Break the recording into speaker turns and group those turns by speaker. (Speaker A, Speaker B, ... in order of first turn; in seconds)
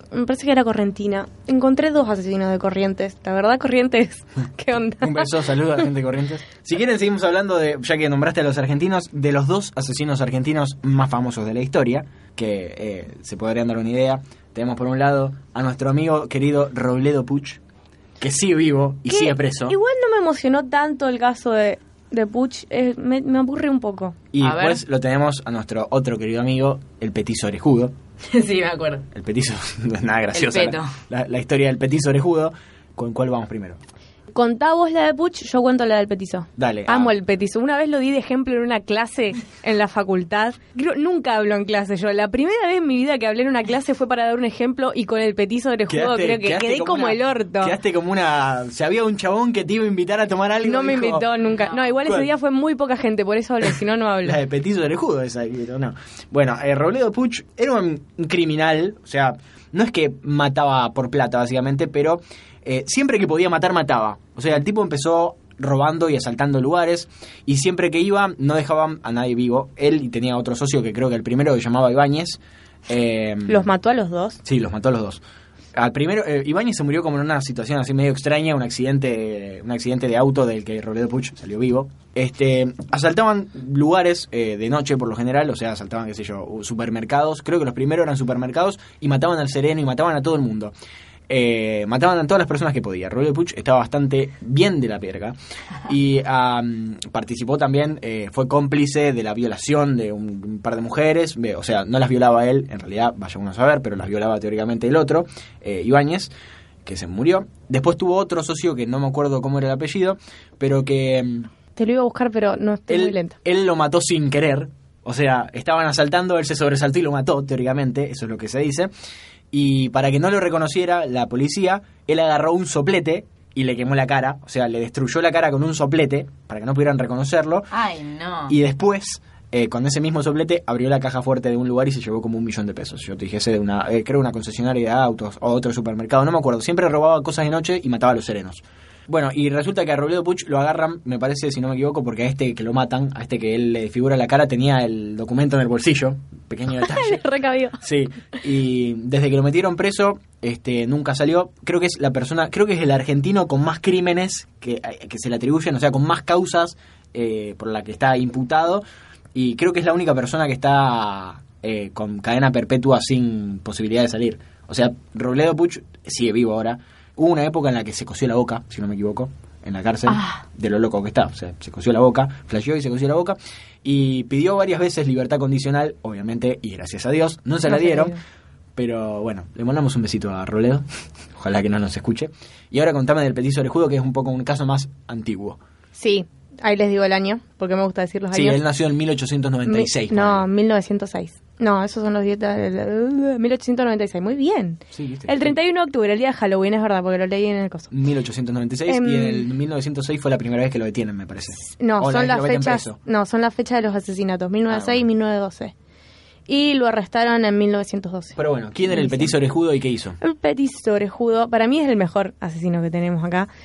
Speaker A: 0.1-5.5, 19.1-24.2, 34.3-47.8, 50.6-54.4, 73.5-74.4, 111.8-113.4, 146.8-147.8, 177.7-178.2, 185.9-188.6, 189.7-197.9, 198.9-199.5, 201.7-205.7, 206.5-208.4, 208.9-209.3, 210.2-213.5
Speaker B: 5.0-17.6, 18.2-19.8, 24.3-27.9, 29.1-33.8, 36.6-37.1, 45.9-51.3, 54.2-73.7, 74.4-75.2, 75.8-90.7, 91.3-106.3, 106.8-111.5, 112.9-118.9, 119.5-127.7, 128.5-147.2, 147.8-158.8, 159.3-178.2, 178.8-180.8, 181.3-185.6, 188.3-190.5, 194.9-195.6, 197.9-203.0, 204.7-205.0, 208.4-210.2
Speaker C: 24.4-24.8, 28.3-29.1, 30.3-30.9, 51.5-52.0, 127.7-128.6, 170.1-170.4